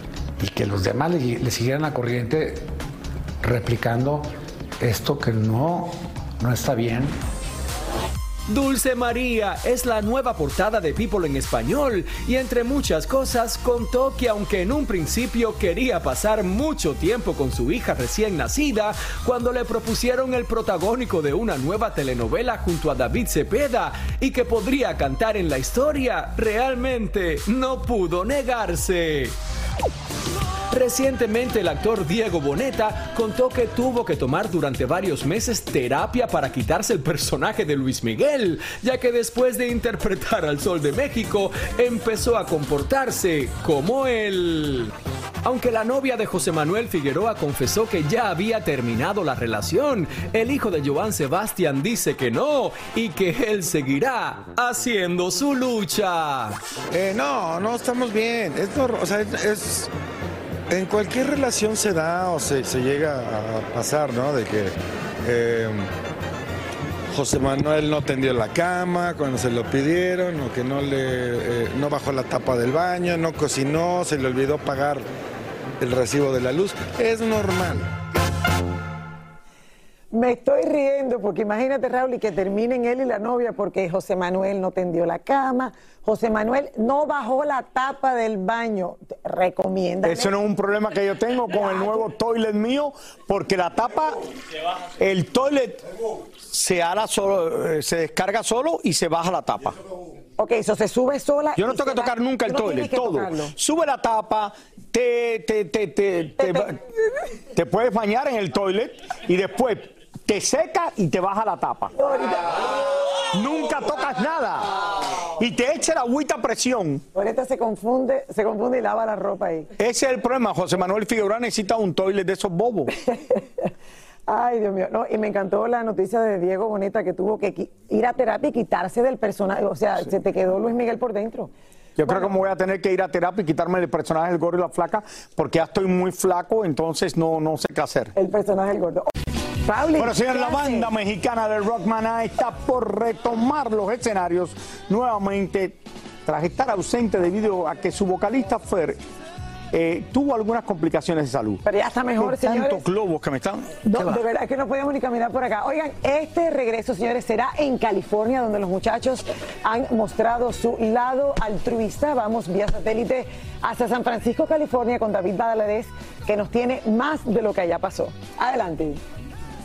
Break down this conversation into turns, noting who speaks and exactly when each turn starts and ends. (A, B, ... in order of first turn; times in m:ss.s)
0:00.4-0:02.7 A
0:03.4-0:07.2 A
0:08.5-0:29.4 B
0:30.7-0:56.6 B
0:56.9-0:59.9 C
1:00.7-1:05.9 C
1:07.1-1:15.1 C
1:15.8-1:17.9 C
1:20.1-1:30.3 D
1:30.0-1:34.2 E
1:31.5-1:32.0 D
1:35.0-1:35.9 E
1:36.4-1:39.8 E
1:40.4-1:43.5 D
1:41.6-1:46.8 E
1:46.4-1:46.7 D
1:47.5-1:51.9 E
1:52.0-1:52.7 D
1:53.3-1:57.0 E
1:57.1-1:59.7 D
1:59.8-2:02.9 E
2:03.1-2:03.7 D
2:04.3-2:11.5 D
2:12.0-2:18.1 E
2:18.2-2:19.1 D
2:19.6-2:20.9 D
2:20.0-2:29.0 E
2:29.7-2:31.6 E
2:31.6-2:32.8 D
2:32.2-2:34.2 E
2:33.9-2:49.0 D